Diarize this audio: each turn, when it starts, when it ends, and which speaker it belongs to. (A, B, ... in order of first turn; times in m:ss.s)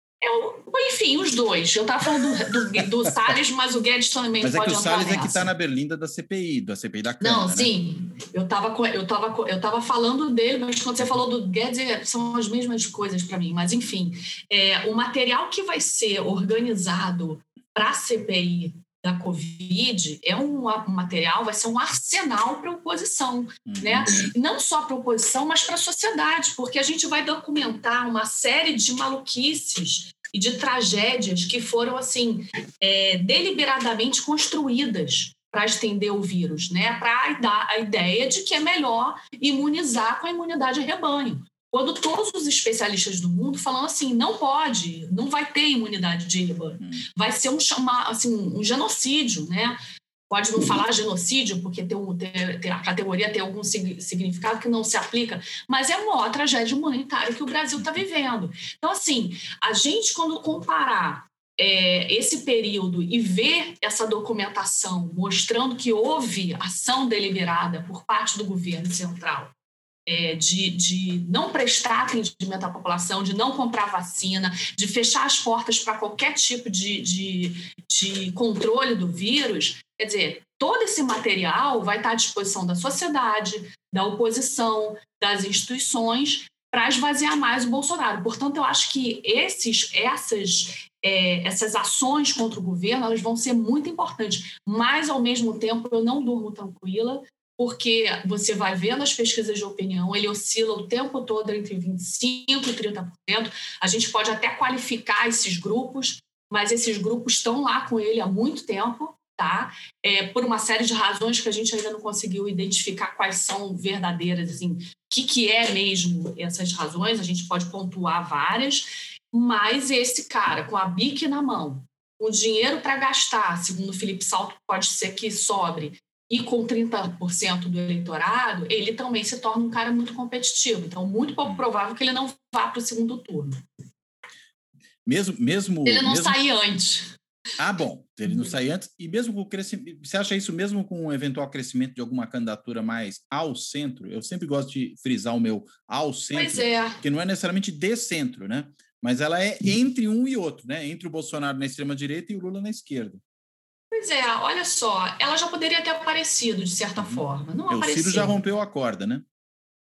0:00.2-0:05.5 A
0:04.4-0:07.7 B
0:07.2-0:49.8 A
0:23.6-0:24.1 B
0:46.8-0:47.0 B
0:50.3-1:09.5 A
1:10.0-2:13.6 A
2:15.0-2:16.4 B
2:15.8-2:17.1 A
2:17.6-2:33.2 B
2:26.3-2:27.0 A
2:33.9-2:38.4 A
2:37.0-2:39.2 B